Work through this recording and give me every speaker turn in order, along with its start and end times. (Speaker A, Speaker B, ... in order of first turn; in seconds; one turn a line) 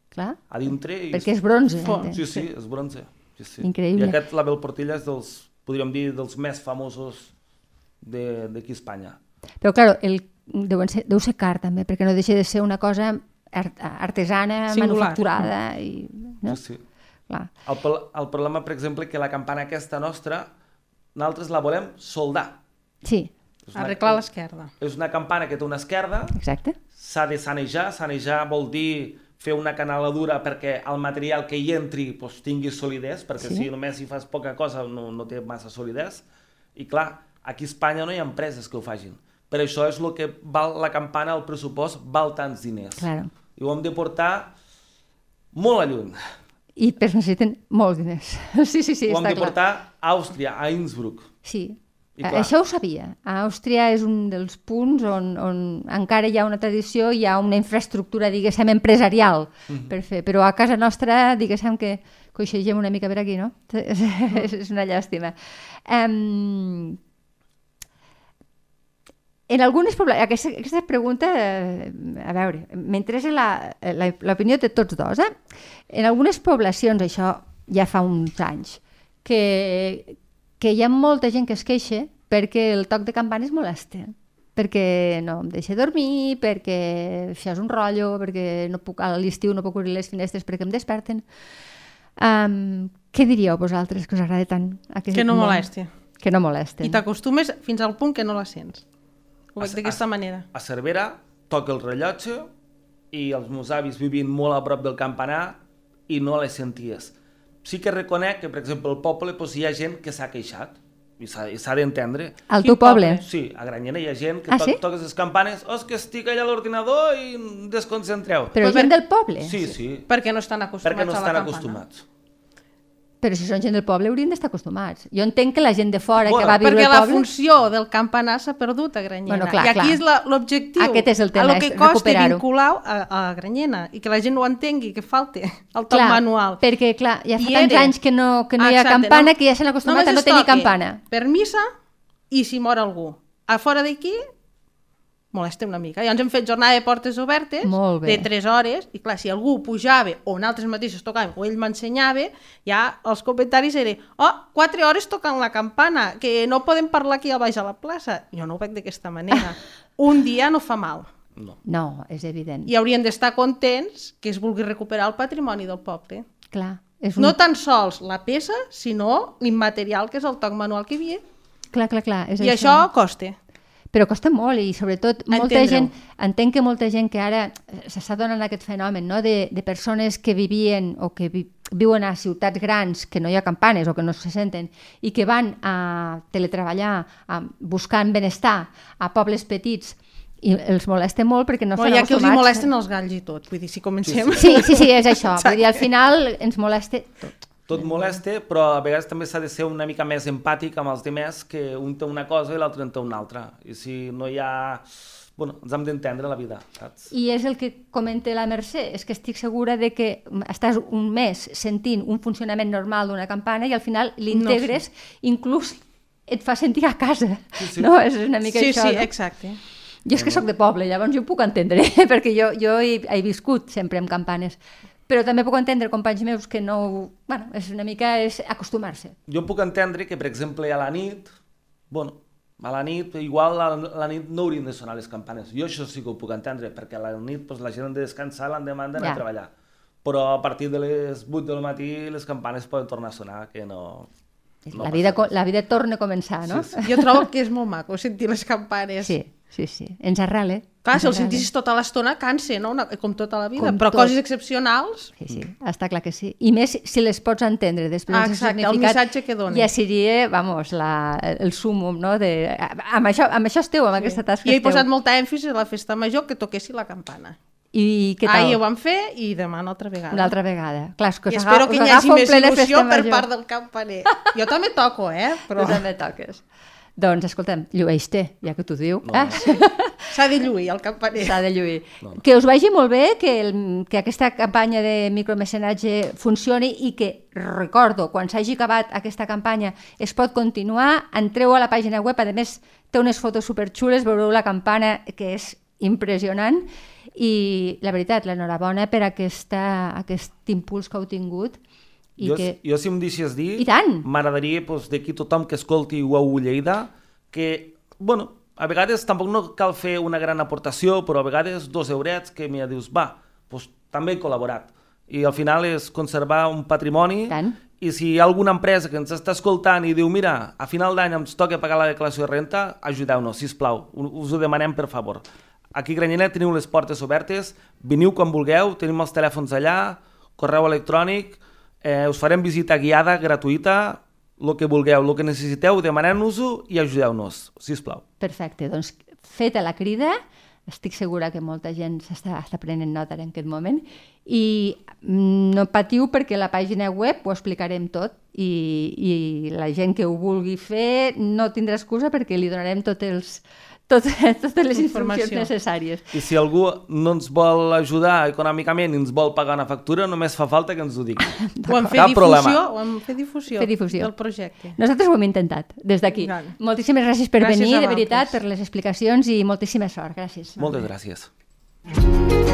Speaker A: 0.1-0.4
Speaker B: 0.5-1.3
Speaker A: 1.1-2.2
Speaker C: 1.8-2.5
Speaker B: 1.8-7.3
Speaker A: 3.6-4.2
Speaker B: 8.0-9.2
Speaker A: 9.6-16.6
Speaker C: 14.7-15.5
Speaker B: 16.4-16.8
Speaker B: 17.6-20.5
Speaker B: 21.1-22.6
Speaker A: 23.0-23.3
Speaker B: 23.6-24.2
Speaker C: 23.7-24.7
Speaker B: 24.8-26.4
Speaker A: 26.3-26.8
Speaker B: 26.9-36.2
Speaker A: 33.4-33.7
Speaker B: 36.7-44.5
Speaker A: 43.0-43.3
Speaker B: 45.5-46.2
Speaker A: 46.8-49.6
Speaker B: 49.1-51.3
Speaker A: 51.4-67.0
Speaker B: 52.2-52.5
Speaker A: 69.5-75.3
Speaker A: 75.9-91.2
Speaker A: 92.2-95.7
Speaker C: 95.1-95.9
Speaker A: 96.2-97.0
Speaker C: 96.8-98.8
Speaker C: 99.5-100.4
Speaker B: 99.6-102.5
Speaker B: 103.1-112.5
Speaker A: 112.5-113.2
Speaker C: 112.6-113.2
Speaker B: 113.2-118.6
Speaker A: 114.5-114.8
Speaker A: 118.5-119.8
Speaker C: 118.6-118.9
Speaker B: 119.4-120.1
Speaker C: 120.1-121.8
Speaker B: 120.8-122.0
Speaker A: 123.2-127.3
Speaker B: 126.2-126.6
Speaker C: 126.6-136.6
Speaker A: 129.3-130.0
Speaker A: 130.8-132.4
Speaker A: 135.9-141.0
Speaker C: 137.4-137.9
Speaker C: 138.6-139.3
Speaker C: 139.8-141.6
Speaker C: 142.3-144.2
Speaker C: 145.3-161.1
Speaker A: 147.6-148.3
Speaker A: 161.6-162.7
Speaker C: 162.7-166.2
Speaker A: 166.5-167.4
Speaker C: 167.2-171.2
Speaker A: 171.7-172.9
Speaker C: 172.4-173.3
Speaker A: 173.9-192.7
Speaker C: 175.3-175.9
Speaker C: 191.8-195.9
Speaker B: 194.0-194.6
Speaker A: 194.4-198.1
Speaker B: 197.7-207.1
Speaker A: 207.1-219.1
Speaker C: 214.3-214.8
Speaker B: 217.6-217.9
Speaker C: 218.5-219.6
Speaker A: 220.0-229.1
Speaker B: 220.1-220.4
Speaker B: 229.3-231.3
Speaker B: 231.9-239.5
Speaker A: 239.0-239.2
Speaker B: 240.0-244.1
Speaker A: 244.7-247.2
Speaker B: 244.7-245.3
Speaker B: 246.5-246.8
Speaker C: 246.8-249.2
Speaker A: 249.0-251.5
Speaker C: 250.8-255.1
Speaker A: 253.6-254.2
Speaker A: 255.2-264.9
Speaker C: 258.1-259.7
Speaker C: 264.0-267.4
Speaker A: 267.7-268.6
Speaker C: 268.2-270.3
Speaker A: 270.1-273.2
Speaker C: 271.3-275.9
Speaker A: 275.5-276.4
Speaker A: 277.0-280.1
Speaker B: 279.0-279.5
Speaker C: 280.1-281.4
Speaker A: 281.1-301.6
Speaker A: 302.2-302.6
Speaker B: 302.2-338.0
Speaker A: 303.6-304.1
Speaker A: 317.3-317.6
Speaker A: 338.2-356.2
Speaker C: 354.7-355.5
Speaker B: 356.1-361.2
Speaker A: 361.6-362.0
Speaker C: 361.7-364.8
Speaker B: 361.9-362.6
Speaker A: 363.5-364.1
Speaker A: 364.8-370.8
Speaker C: 366.1-366.6
Speaker C: 367.4-368.4
Speaker B: 370.6-371.3